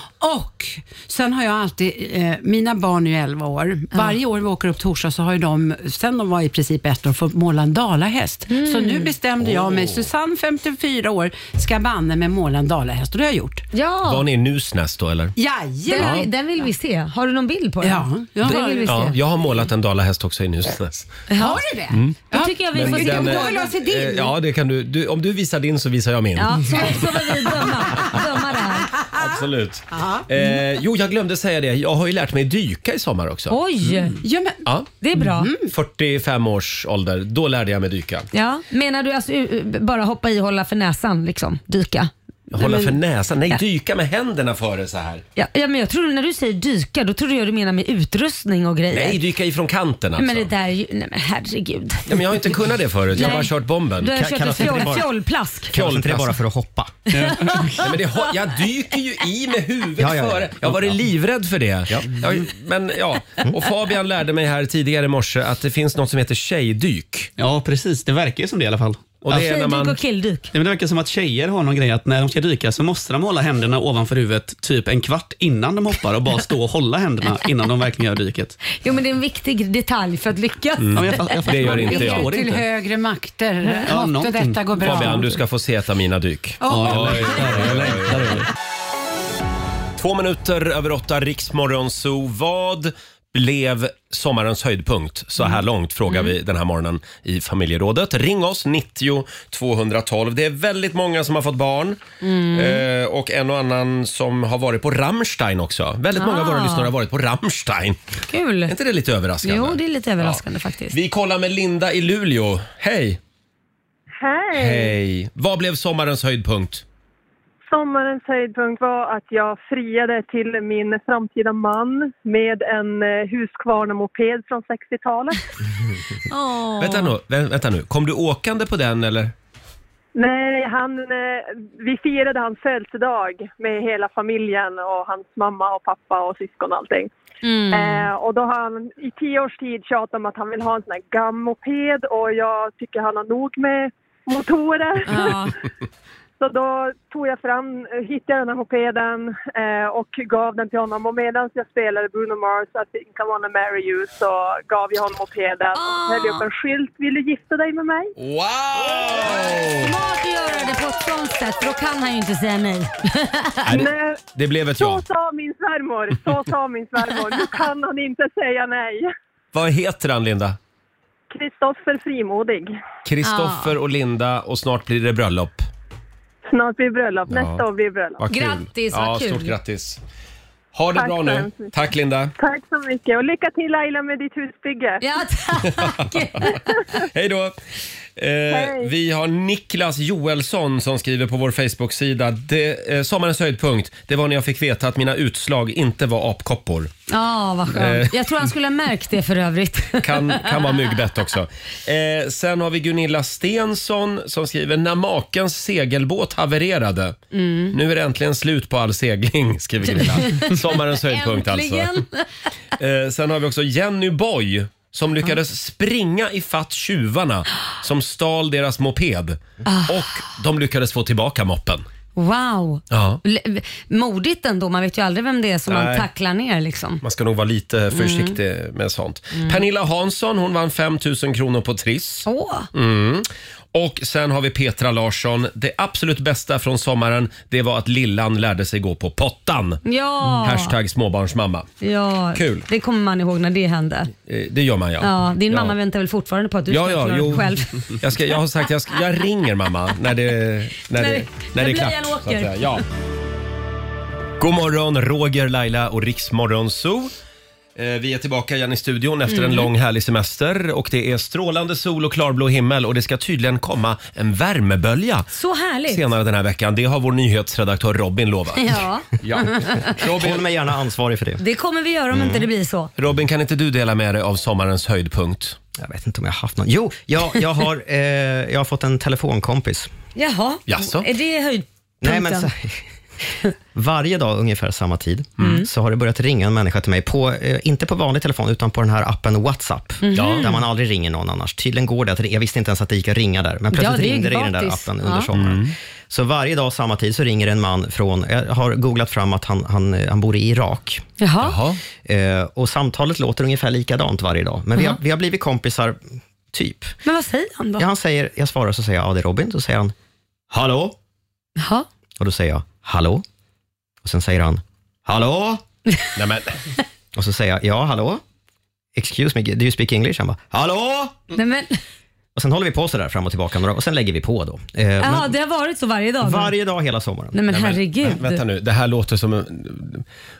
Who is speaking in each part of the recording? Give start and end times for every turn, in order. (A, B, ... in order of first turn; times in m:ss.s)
0:00.2-0:13.6 A
0:08.5-0:09.1 B
0:09.4-0:10.1 C
0:13.7-0:14.2 B
0:14.1-0:15.4 C
0:15.4-0:16.6 A
0:15.9-0:19.1 B
0:16.0-0:16.3 C
0:17.8-0:19.2 A
0:18.9-0:21.2 C
0:21.3-0:21.6 B
0:21.4-0:24.4 A
0:21.9-0:22.2 C
0:22.3-0:23.7 B
0:22.7-0:27.0 C
0:26.4-0:28.9 B
0:29.2-0:33.6 C
0:29.9-0:30.3 A
0:33.5-0:34.2 B
0:33.9-0:35.7 A
0:35.0-0:35.5 B
0:35.7-0:38.3 C
0:38.3-0:43.0 B
0:42.5-0:45.2 C
0:45.4-0:49.2 B
0:48.9-0:50.5 C
0:50.2-0:52.4 B
0:52.1-0:54.9 C
0:53.2-0:55.7 B
0:54.0-0:55.1 D
0:55.7-0:57.0 D
0:55.7-0:56.4 C
0:57.1-0:57.8 E
0:57.2-0:57.9 B
0:57.8-1:07.3 C
1:00.0-1:01.0 D
1:07.4-1:09.4 E
1:09.2-1:10.0 C
1:09.3-1:10.5 B
1:10.5-1:18.6 E
1:18.7-1:22.0 B
1:20.8-1:22.3 C
1:21.0-1:22.7 E
1:21.7-1:25.3 A
1:23.9-1:25.2 E
1:24.8-1:28.4 C
1:26.6-1:27.3 A
1:26.7-1:28.5 E
1:30.0-1:48.0 C
1:42.2-1:42.9 B
1:46.2-1:46.9 B
1:48.3-1:48.7 B
1:48.7-1:53.2 C
1:49.4-1:51.0 B
1:54.2-1:55.0 F
1:54.5-1:56.8 C
1:57.7-2:05.4 F
2:06.3-2:07.1 B
2:06.8-2:09.3 C
2:10.2-2:17.1 F
2:17.4-2:18.1 B
2:17.7-2:25.6 F
2:25.1-2:25.5 B
2:26.4-2:38.1 F
2:35.7-2:36.4 B
2:38.2-2:40.0 C
2:38.9-2:43.8 B
2:43.7-2:45.0 C
2:43.7-2:44.2 F
2:44.8-2:49.1 F
2:49.5-2:50.6 C
2:51.3-2:52.7 F
2:53.0-2:55.6 C
2:53.2-2:53.8 B
2:56.5-2:58.3 F
2:57.3-2:57.6 C
2:58.2-3:00.0 C
2:58.3-2:59.6 B
3:00.7-3:02.3 C
3:00.9-3:01.7 F
3:02.4-3:05.0 F
3:05.0-3:06.8 B
3:05.6-3:07.6 C
3:08.2-3:16.9 C
3:08.5-3:08.9 F
3:17.1-3:20.7 B
3:17.7-3:18.5 C
3:20.0-3:27.2 C
3:27.3-3:27.8 B
3:27.7-3:32.0 C
3:29.9-3:32.3 B
3:32.8-3:41.8 C
3:39.6-3:40.2 B
3:42.2-3:47.0 B
3:42.9-3:43.2 C
3:45.7-3:46.1 C
3:47.0-3:59.8 C
3:47.9-3:48.4 B
3:52.2-3:52.7 B
3:59.8-4:00.7 B
4:00.4-4:01.7 C
4:01.8-4:04.1 B
4:02.3-4:02.7 C
4:04.3-4:05.8 C
4:05.0-4:08.0 B
4:06.7-4:12.8 C
4:11.0-4:12.6 B
4:14.4-4:17.1 C
4:17.8-4:25.3 C
4:19.3-4:19.7 B
4:25.3-4:26.0 B
4:25.9-4:30.5 C
4:28.6-4:30.0 B
4:30.0-4:31.4 D
4:31.4-4:32.9 B
4:32.1-4:32.5 D
4:33.0-4:35.6 C
4:35.8-4:39.9 D
4:40.2-4:42.5 B
4:40.7-4:41.1 C
4:42.0-4:42.8 D
4:43.8-5:01.0 D
4:45.4-4:45.7 C
4:45.4-4:45.7 B
4:50.0-4:50.6 B
4:50.1-4:50.6 C
4:53.7-4:55.3 B
4:55.4-4:55.8 C
5:01.2-5:01.6 B
5:01.4-5:01.8 C
5:02.0-5:07.0 D
5:07.0-5:07.9 B
5:07.8-5:09.9 D
5:10.5-5:11.0 D
5:11.6-5:11.9 B
5:12.2-5:13.2 D
5:14.0-5:15.6 D
5:16.2-5:16.6 C
5:17.1-5:18.2 D
5:19.0-5:21.2 D
5:21.3-5:21.8 B
5:22.4-5:25.3 D
5:25.0-5:26.5 B
5:26.2-5:27.4 D
5:27.3-5:28.4 B
5:27.5-5:30.1 C